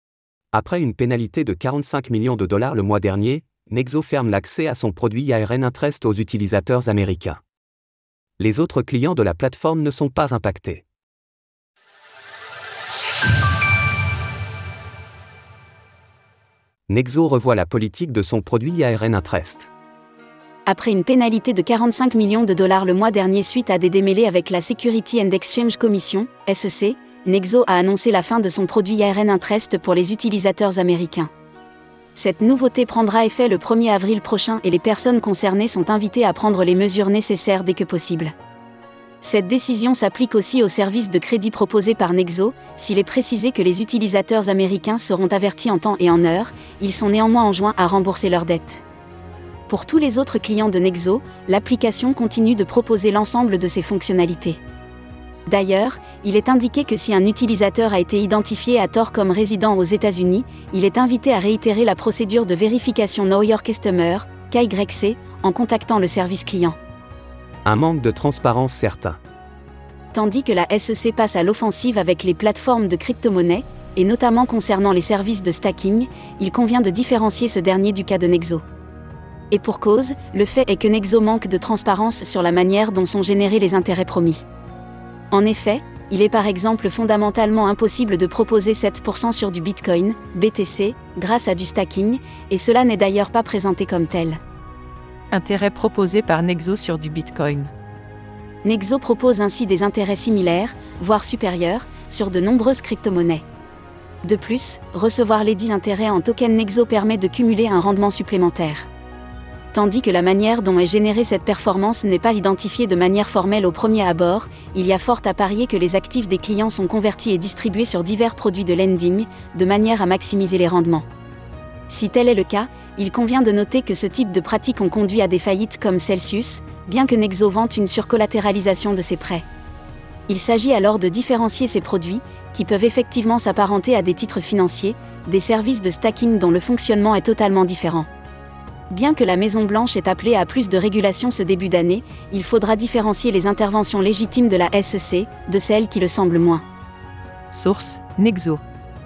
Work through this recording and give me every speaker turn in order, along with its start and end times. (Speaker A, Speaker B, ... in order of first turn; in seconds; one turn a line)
Speaker A: 0.5-7.4
Speaker A: 8.4-10.8
Speaker A: 16.9-19.7
Speaker B: 20.7-31.3
Speaker B: 32.1-38.3
Speaker B: 39.2-48.8
Speaker B: 49.7-54.6
Speaker B: 55.5-66.8
Speaker A: 67.6-69.2
Speaker B: 70.1-78.6
Speaker B: 79.5-84.4
Speaker B: 85.3-94.4
Speaker C: 95.3-97.7
Speaker B: 98.6-103.4
Speaker B: 104.2-108.9
Speaker B: 109.7-121.0
Speaker B: 121.9-129.4
Speaker B: 130.3-138.1
Speaker B: 138.9-146.6
Speaker C: 147.5-148.6